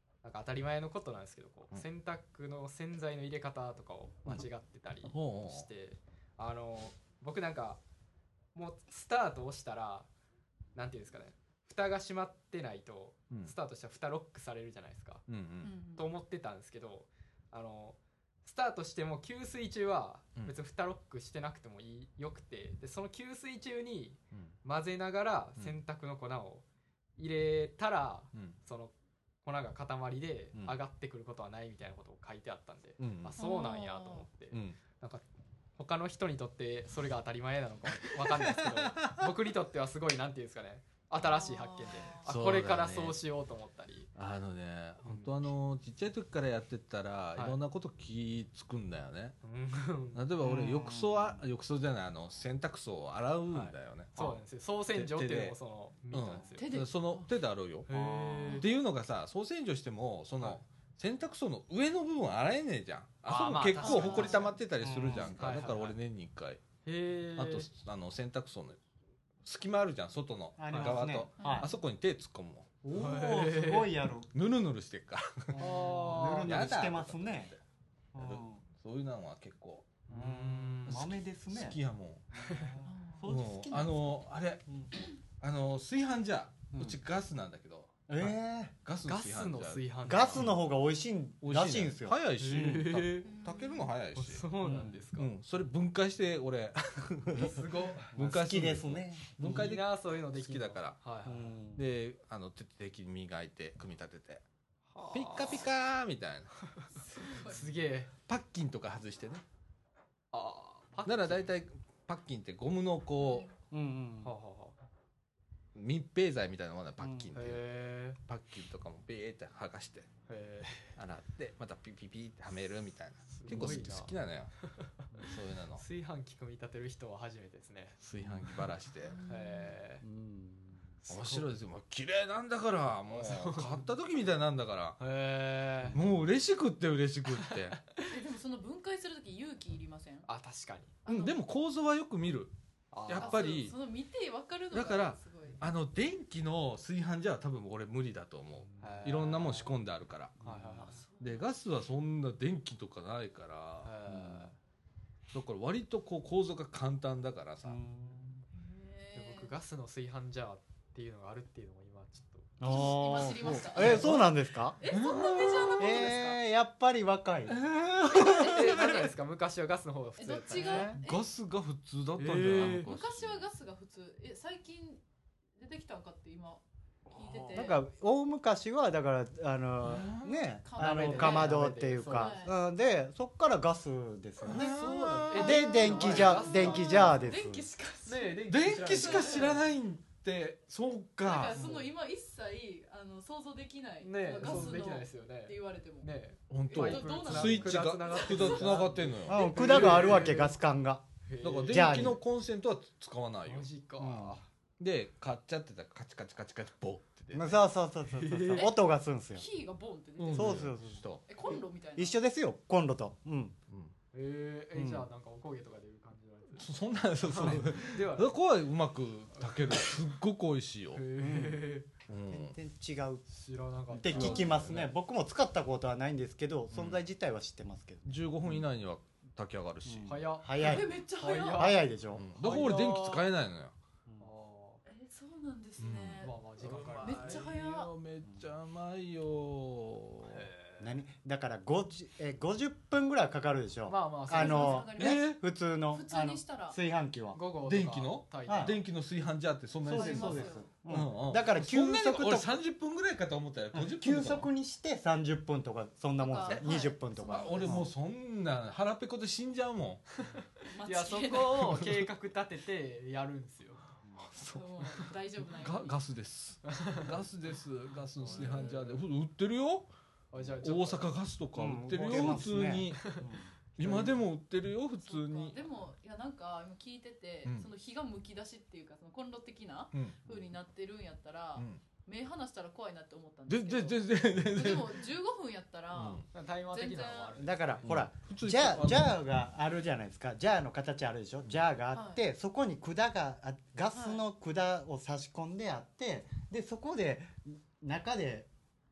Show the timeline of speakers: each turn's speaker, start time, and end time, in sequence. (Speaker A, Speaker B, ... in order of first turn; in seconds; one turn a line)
Speaker A: 0.2-7.8
Speaker B: 5.0-5.7
Speaker A: 8.5-10.1
Speaker A: 10.7-15.2
Speaker B: 15.3-15.7
Speaker C: 15.6-16.1
Speaker A: 15.9-26.6
Speaker A: 27.2-28.9
Speaker A: 29.4-35.2
Speaker B: 33.0-33.4
Speaker C: 33.4-34.2
Speaker B: 34.5-34.8
Speaker A: 35.8-44.1
Speaker B: 38.0-39.3
Speaker C: 41.1-42.3
Speaker B: 42.2-43.2
Speaker B: 44.1-49.4
Speaker A: 45.0-45.4
Speaker A: 49.4-50.3
Speaker B: 50.1-55.5
Speaker D: 50.4-51.4
Speaker A: 53.5-56.8
Speaker B: 56.1-57.9
Speaker C: 56.6-57.2
Speaker A: 57.9-58.6
Speaker D: 57.9-58.6
Speaker B: 58.5-66.6
Speaker A: 63.2-64.6
Speaker C: 63.8-64.5
Speaker D: 64.8-65.4
Speaker A: 65.2-66.0
Speaker A: 66.8-67.7
Speaker B: 67.4-68.8
Speaker B: 69.4-72.8
Speaker D: 70.6-71.7
Speaker A: 70.7-71.1
Speaker C: 71.4-71.8
Speaker D: 72.8-74.3
Speaker A: 72.9-73.9
Speaker B: 74.3-77.6
Speaker D: 75.5-77.5
Speaker A: 75.5-76.6
Speaker D: 78.1-78.6
Speaker B: 78.2-80.0
Speaker A: 80.1-81.0
Speaker D: 80.1-81.8
Speaker B: 80.9-82.2
Speaker D: 82.3-84.9
Speaker A: 82.4-82.7
Speaker C: 82.8-83.2
Speaker B: 83.2-84.6
Speaker B: 85.4-90.5
Speaker D: 88.1-88.7
Speaker A: 89.0-90.5
Speaker D: 90.1-93.0
Speaker B: 91.4-94.5
Speaker A: 92.4-93.3
Speaker C: 93.3-93.9
Speaker A: 94.1-95.3
Speaker D: 94.6-95.0
Speaker B: 95.2-101.0
Speaker A: 97.3-98.1
Speaker D: 98.1-99.7
Speaker A: 99.4-101.5
Speaker D: 101.2-101.8
Speaker B: 101.8-104.4
Speaker A: 104.9-105.7
Speaker B: 105.1-106.5
Speaker A: 106.7-108.1
Speaker C: 106.9-107.7
Speaker B: 108.3-109.4
Speaker A: 110.3-111.5
Speaker B: 111.0-113.5
Speaker C: 113.2-113.5
Speaker D: 113.7-114.3
Speaker A: 114.2-114.8
Speaker B: 115.7-120.1
Speaker D: 117.0-117.3
Speaker A: 117.3-118.2
Speaker A: 120.3-120.9
Speaker B: 121.0-124.5
Speaker A: 123.3-128.4
Speaker D: 123.5-123.8
Speaker B: 125.2-125.8
Speaker B: 128.0-129.2
Speaker C: 129.1-129.8
Speaker A: 129.2-130.0
Speaker D: 130.0-130.9
Speaker A: 131.0-131.5
Speaker B: 131.1-135.0
Speaker A: 133.1-133.9
Speaker A: 135.0-136.0
Speaker D: 135.8-136.2
Speaker B: 135.9-137.8
Speaker A: 137.4-138.1
Speaker C: 138.1-140.3
Speaker A: 140.2-140.9
Speaker C: 141.0-141.4
Speaker B: 141.1-142.5
Speaker A: 142.9-143.6
Speaker B: 143.1-143.8
Speaker C: 143.2-145.7
Speaker B: 144.7-150.4
Speaker A: 148.8-149.8
Speaker D: 150.4-151.0
Speaker A: 150.4-151.0
Speaker C: 150.8-151.4
Speaker B: 151.2-153.9
Speaker A: 153.8-154.6
Speaker D: 154.1-154.5
Speaker B: 155.3-157.8
Speaker D: 157.6-158.4
Speaker C: 158.5-159.5
Speaker A: 159.1-163.0
Speaker D: 162.6-164.8
Speaker C: 162.6-164.2
Speaker B: 163.7-164.2
Speaker A: 163.8-164.2
Speaker C: 164.8-166.4
Speaker B: 164.8-165.9
Speaker D: 165.8-168.5
Speaker B: 167.5-168.5
Speaker C: 168.1-169.0
Speaker A: 168.1-171.0
Speaker C: 170.2-171.3
Speaker D: 170.5-171.0
Speaker B: 171.0-173.5
Speaker A: 172.2-172.9
Speaker C: 172.6-175.0
Speaker C: 175.6-177.8
Speaker B: 177.1-177.7
Speaker D: 177.5-187.7
Speaker B: 179.8-180.5
Speaker C: 180.6-182.6
Speaker A: 180.8-182.4
Speaker B: 184.4-186.2
Speaker A: 184.5-187.2
Speaker C: 185.3-189.6
Speaker A: 188.1-189.7
Speaker B: 188.5-191.6
Speaker C: 191.2-196.1
Speaker A: 191.5-191.9
Speaker A: 194.0-200.5
Speaker B: 194.4-194.7
Speaker B: 196.5-200.3
Speaker C: 196.7-198.8
Speaker D: 199.2-201.0
Speaker C: 199.3-200.1
Speaker A: 201.2-202.2
Speaker B: 201.4-203.7
Speaker D: 201.7-202.2
Speaker A: 203.4-204.5
Speaker D: 204.0-204.4
Speaker B: 204.8-207.6
Speaker D: 207.3-209.4
Speaker A: 208.1-208.7
Speaker C: 208.5-208.8
Speaker C: 209.3-210.7
Speaker B: 210.2-211.2
Speaker D: 210.3-213.6
Speaker C: 211.2-212.2
Speaker A: 214.1-216.7
Speaker D: 214.8-215.1
Speaker B: 216.6-221.0
Speaker A: 217.2-218.3
Speaker A: 219.5-219.9
Speaker A: 220.9-221.9
Speaker D: 221.2-221.6
Speaker B: 222.1-222.5
Speaker D: 222.3-223.2
Speaker A: 223.3-224.7
Speaker D: 223.9-228.7
Speaker B: 224.0-224.9
Speaker C: 224.1-224.5
Speaker B: 226.7-227.0
Speaker B: 228.1-230.2
Speaker D: 229.8-231.0
Speaker A: 230.1-233.2
Speaker C: 230.6-231.8
Speaker D: 231.5-232.3
Speaker B: 232.1-233.7
Speaker A: 234.2-234.8
Speaker C: 234.8-236.3
Speaker B: 235.8-240.5
Speaker A: 236.2-237.5
Speaker C: 237.0-237.9
Speaker A: 240.2-240.9
Speaker D: 240.8-247.4
Speaker A: 243.9-244.9
Speaker C: 244.3-245.3
Speaker B: 245.0-245.4
Speaker C: 245.9-246.8
Speaker A: 247.3-248.8
Speaker B: 247.6-254.5
Speaker D: 248.5-248.8
Speaker D: 249.8-252.5
Speaker C: 249.9-250.7
Speaker D: 253.9-257.9
Speaker C: 256.2-257.9
Speaker B: 257.2-260.0
Speaker A: 260.1-263.8
Speaker C: 260.7-261.8
Speaker B: 264.2-269.9
Speaker C: 264.5-266.0
Speaker A: 266.6-267.1
Speaker A: 268.2-269.0
Speaker C: 268.3-268.6
Speaker A: 270.3-271.1
Speaker B: 270.6-273.2
Speaker D: 271.5-273.5
Speaker A: 272.9-274.2
Speaker B: 273.8-275.6
Speaker C: 275.0-287.4
Speaker B: 277.4-277.7
Speaker B: 279.9-280.2
Speaker D: 280.2-280.5
Speaker B: 281.6-281.8
Speaker B: 283.5-285.1
Speaker B: 285.9-286.3
Speaker A: 286.3-287.9
Speaker D: 287.4-298.5
Speaker B: 287.9-289.2
Speaker C: 291.9-292.2
Speaker C: 293.9-294.2